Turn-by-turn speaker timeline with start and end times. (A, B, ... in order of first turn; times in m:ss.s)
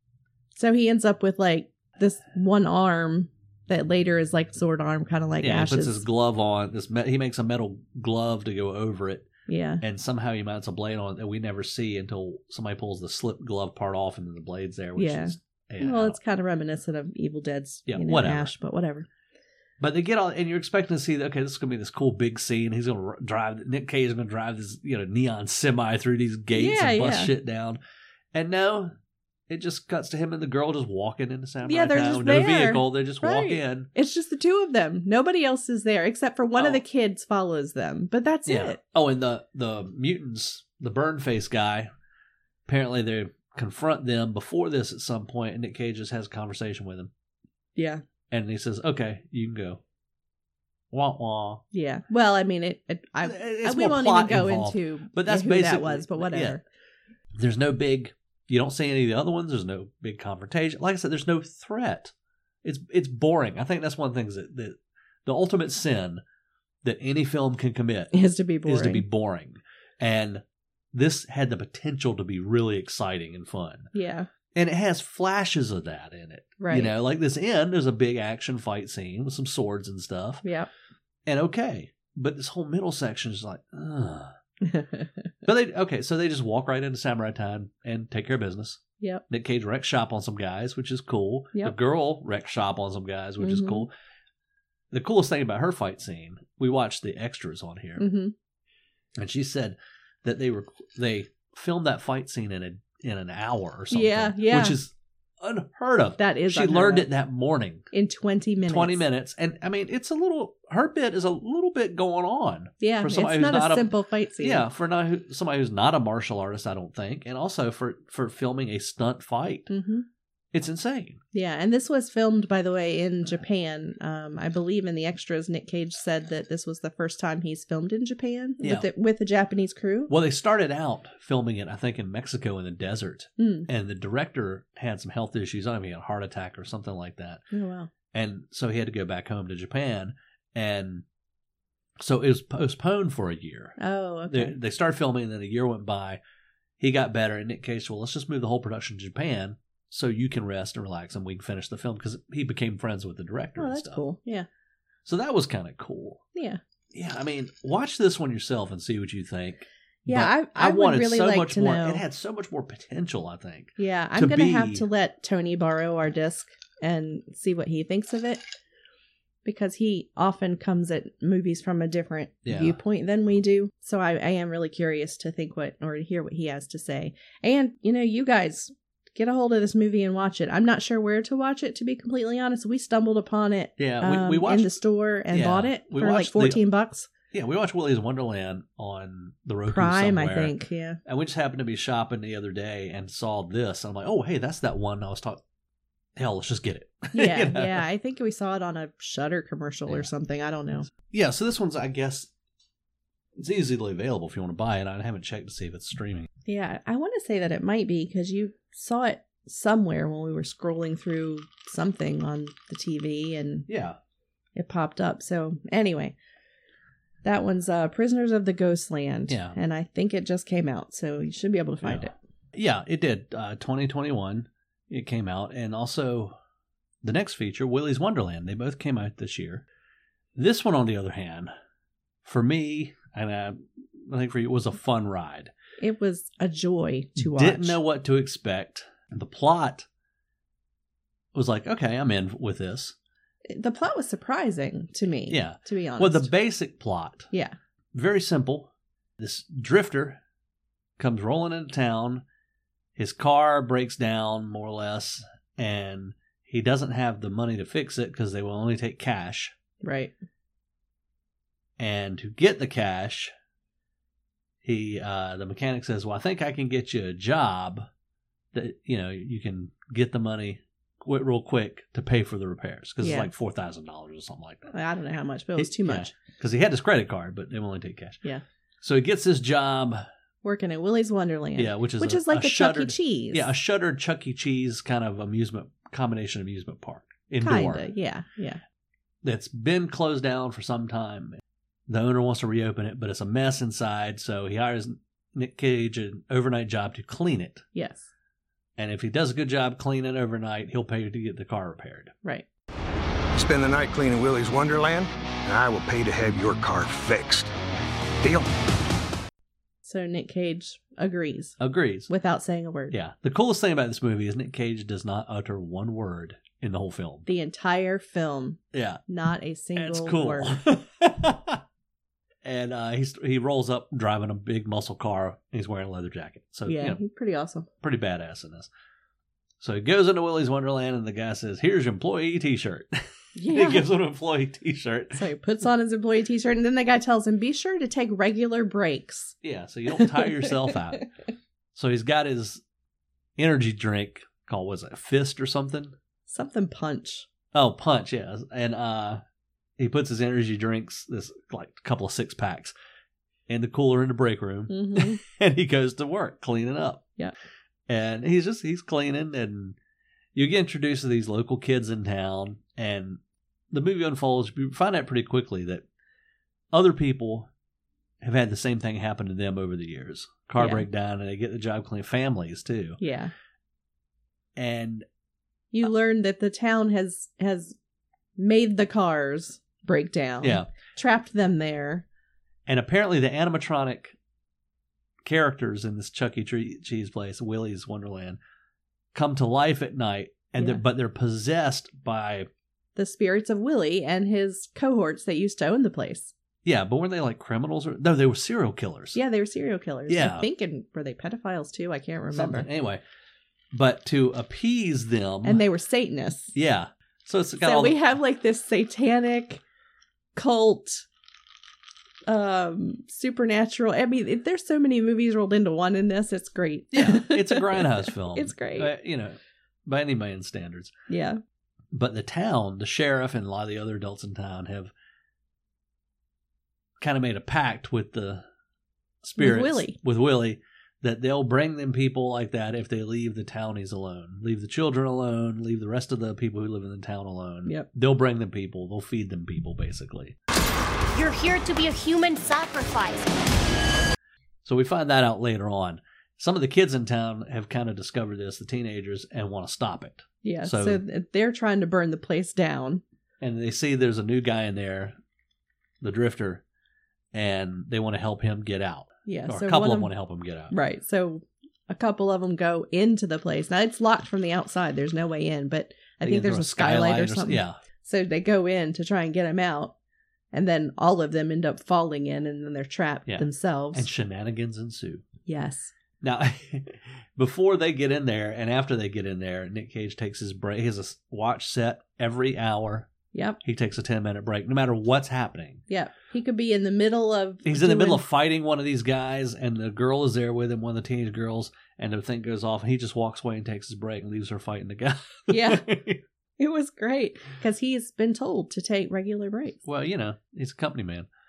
0:00.5-0:06.0 A
0:05.4-0:09.3 B
0:09.5-0:09.8 A
0:09.8-0:16.2 B
0:15.0-0:19.1 A
0:17.9-0:18.5 B
0:19.8-0:27.8 B
0:26.5-0:27.3 A
0:28.3-0:28.9 B
0:29.5-0:33.9 B
0:31.6-0:38.8 A
0:36.6-0:36.8 B
0:38.4-0:41.9 B
0:42.6-0:47.1 B
0:47.8-0:48.0 A
0:48.3-0:49.8 B
0:50.9-0:51.6 B
0:51.7-0:56.6 A
0:53.2-0:56.6 B
0:57.4-1:02.1 B
1:02.6-1:06.2 B
1:06.8-1:08.1 B
1:08.1-1:09.0 A
1:08.6-1:13.9 B
1:13.9-1:14.3 A
1:14.5-1:20.4 B
1:16.6-1:16.9 A
1:20.4-1:20.7 A
1:21.2-1:24.3 B
1:24.6-1:25.3 A
1:25.4-1:33.9 B
1:33.4-1:33.8 A
1:34.9-1:38.0 B
1:38.0-1:38.3 A
1:39.2-1:47.9 B
1:43.9-1:44.8 A
1:46.2-1:47.1 A
1:47.9-1:49.0 A
1:48.7-1:59.7 B
1:52.8-1:54.6 A
1:59.7-2:00.0 A
2:00.5-2:01.2 B
2:01.3-2:10.1 A
2:08.6-2:08.9 B
2:10.1-2:17.4 B
2:13.4-2:13.7 A
2:17.5-2:17.9 A
2:18.1-2:21.0 B
2:22.0-2:23.8 B
2:23.8-2:24.5 A
2:24.3-2:26.2 B
2:26.8-2:34.0 B
2:33.6-2:34.5 A
2:35.0-2:36.2 B
2:36.3-2:36.6 A
2:36.9-2:44.8 B
2:40.1-2:42.0 A
2:43.8-2:48.4 A
2:49.4-3:07.1 A
2:52.4-2:52.8 B
3:03.8-3:06.6 B
3:07.3-3:10.5 B
3:09.7-3:11.0 A
3:11.0-3:15.4 B
3:16.2-3:17.8 B
3:17.1-3:20.9 A
3:20.9-3:22.3 B
3:23.4-3:26.3 B
3:26.4-3:33.7 A
3:33.7-3:34.0 B
3:34.5-3:36.1 A
3:37.2-3:42.1 A
3:39.3-3:39.6 B
3:41.8-3:46.3 B
3:47.0-3:49.6 B
3:50.4-3:51.5 B
3:52.2-3:55.5 B
3:55.8-3:57.8 A
3:57.2-3:59.8 B
4:01.3-4:02.9 B
4:03.5-4:06.3 A
4:05.3-4:07.3 B
4:07.9-4:10.2 B
4:11.0-4:12.2 B
4:13.0-4:19.5 B
4:19.8-4:20.1 A
4:21.8-4:23.3 B
4:24.6-4:27.9 B
4:28.5-4:34.7 B
4:33.0-4:33.3 A
4:34.7-4:36.1 A
4:35.6-4:38.2 B
4:38.8-4:40.0 B
4:40.4-4:43.5 A
4:41.6-4:47.8 B
4:47.4-4:48.6 A
4:49.2-4:57.6 B
4:57.7-4:58.1 A
4:58.8-5:02.1 B
5:03.3-5:07.5 C
5:08.2-5:08.5 C
5:09.8-5:11.6 A
5:11.6-5:12.1 B
5:12.1-5:13.0 A
5:12.9-5:17.2 B
5:17.2-5:20.6 A
5:18.7-5:19.0 B
5:19.8-5:21.6 B
5:22.4-5:27.0 B
5:26.7-5:27.7 A
5:27.8-5:28.7 B
5:29.6-5:35.2 B
5:33.4-5:33.9 A
5:35.1-5:39.4 A
5:39.4-5:41.0 B
5:39.9-5:41.0 A
5:41.7-5:42.6 B
5:43.4-5:45.9 B
5:46.3-5:47.2 A
5:47.5-5:49.2 B
5:49.8-5:52.7 B
5:53.5-5:57.0 B
5:54.7-5:55.2 A
5:57.9-5:59.8 B
6:00.3-6:03.2 B
6:03.7-6:05.8 B
6:06.7-6:07.5 B
6:08.2-6:13.0 B
6:10.6-6:10.8 A
6:13.0-6:13.3 A
6:14.6-6:15.0 B
6:15.7-6:17.8 A
6:18.4-6:22.0 A
6:20.4-6:20.7 B
6:22.7-6:24.2 B
6:25.2-6:28.4 B
6:29.1-6:32.5 B
6:33.0-6:36.3 A
6:36.6-6:39.2 B
6:39.1-6:42.7 A
6:40.1-6:40.5 B
6:42.3-6:43.0 B
6:43.7-6:45.6 B
6:45.4-6:46.5 A
6:46.5-6:48.0 B
6:47.6-6:49.6 A
6:50.3-6:51.1 A
6:52.3-6:58.9 A
6:56.9-7:00.9 B
7:01.1-7:01.4 A
7:01.9-7:04.9 B
7:07.0-7:08.4 B
7:09.2-7:20.4 B
7:09.4-7:10.0 A
7:21.1-7:23.3 D
7:24.6-7:31.0 B
7:30.4-7:33.0 A
7:33.4-7:35.2 B
7:36.0-7:36.6 B
7:37.3-7:40.7 B
7:39.2-7:40.1 A
7:40.7-7:49.9 A
7:46.2-7:47.8 B
7:50.5-7:54.1 A
7:53.3-7:55.2 B
7:55.4-7:55.9 A
7:56.2-8:03.1 B
8:03.3-8:03.6 A
8:03.6-8:05.8 B
8:05.9-8:08.2 A
8:07.6-8:16.2 B
8:15.5-8:15.8 A
8:16.6-8:19.8 A
8:19.8-8:21.3 B